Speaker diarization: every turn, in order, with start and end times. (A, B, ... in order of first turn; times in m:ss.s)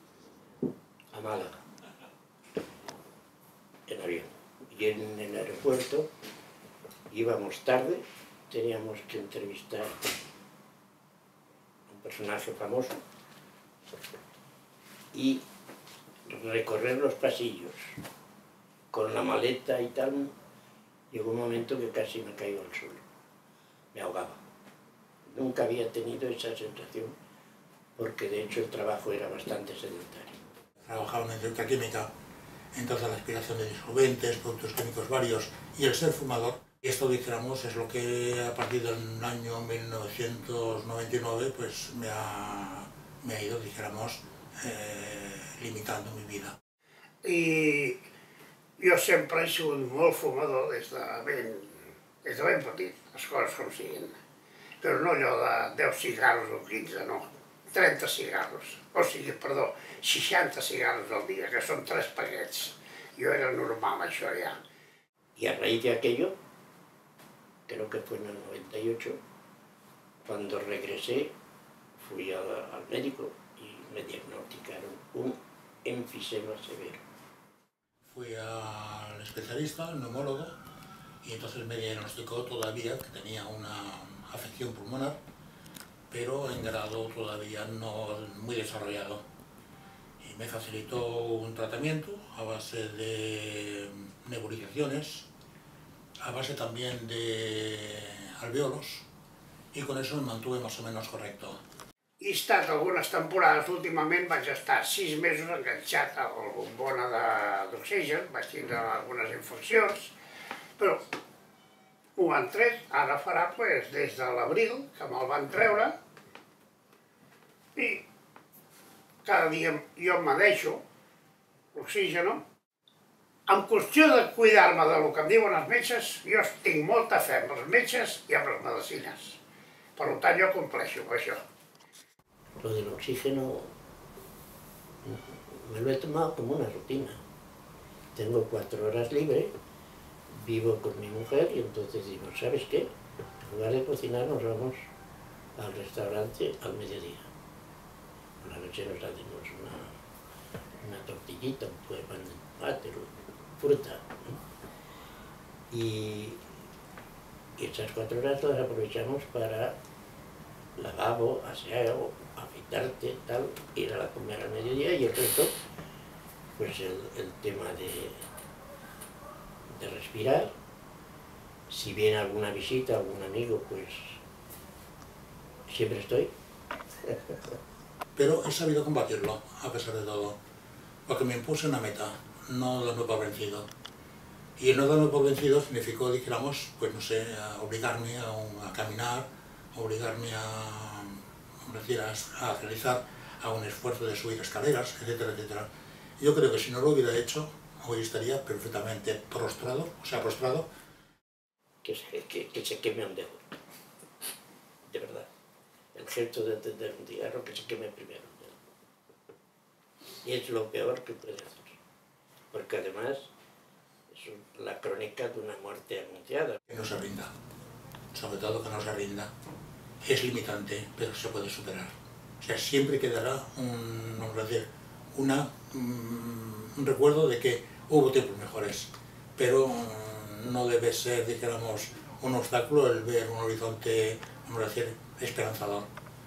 0:01.1-0:01.6 A
0:03.9-0:06.1 A
0:07.1-0:09.9 A
0:11.9-0:13.0 A
0:15.1-0:15.4 A
0:16.3-0:18.0 A
0:18.9-0:20.3 A
0:21.1-0:23.0 A
0:23.9-0:24.4 A
0:25.3-0:27.1 A
0:28.0-0:30.4 A
0:30.8-0:32.1 B
0:32.7-0:46.6 B
0:47.2-0:48.0 C
0:48.8-0:51.7 C
0:52.2-0:54.1 C
0:54.8-1:04.6 C
1:05.4-1:06.3 A
1:07.7-1:09.2 A
1:10.2-1:11.3 A
1:12.0-1:17.0 A
1:18.1-1:20.6 B
1:21.2-1:25.2 B
1:26.1-1:29.2 B
1:30.2-1:35.3 B
1:36.2-1:39.1 B
1:39.7-1:41.6 B
1:42.2-1:50.1 C
1:52.2-1:55.9 C
1:57.8-1:58.0 C
1:59.2-2:00.8 C
2:01.8-2:02.4 C
2:03.5-2:09.4 C
2:10.0-2:11.4 C
2:12.6-2:13.7 A
2:15.0-2:17.2 A
2:18.1-2:19.5 A
2:20.3-2:22.9 A
2:23.4-2:24.8 A
2:25.6-2:27.3 A
2:28.4-2:29.9 A
2:30.8-2:34.4 A
2:35.7-2:36.4 A
2:37.6-2:39.8 A
2:40.8-2:45.5 A
2:46.6-2:48.2 A
2:49.7-2:50.5 A
2:51.7-2:54.2 A
2:55.7-2:56.3 A
2:58.2-3:00.4 B
3:01.1-3:03.7 B
3:04.6-3:15.7 B
3:16.2-3:20.6 B
3:21.8-3:23.6 A
3:24.9-3:25.3 A
3:25.9-3:28.6 A
3:30.2-3:31.8 A
3:32.5-3:33.3 A
3:34.1-3:36.6 A
3:36.7-3:37.3 B
3:38.1-3:39.3 B
3:40.0-3:55.9 B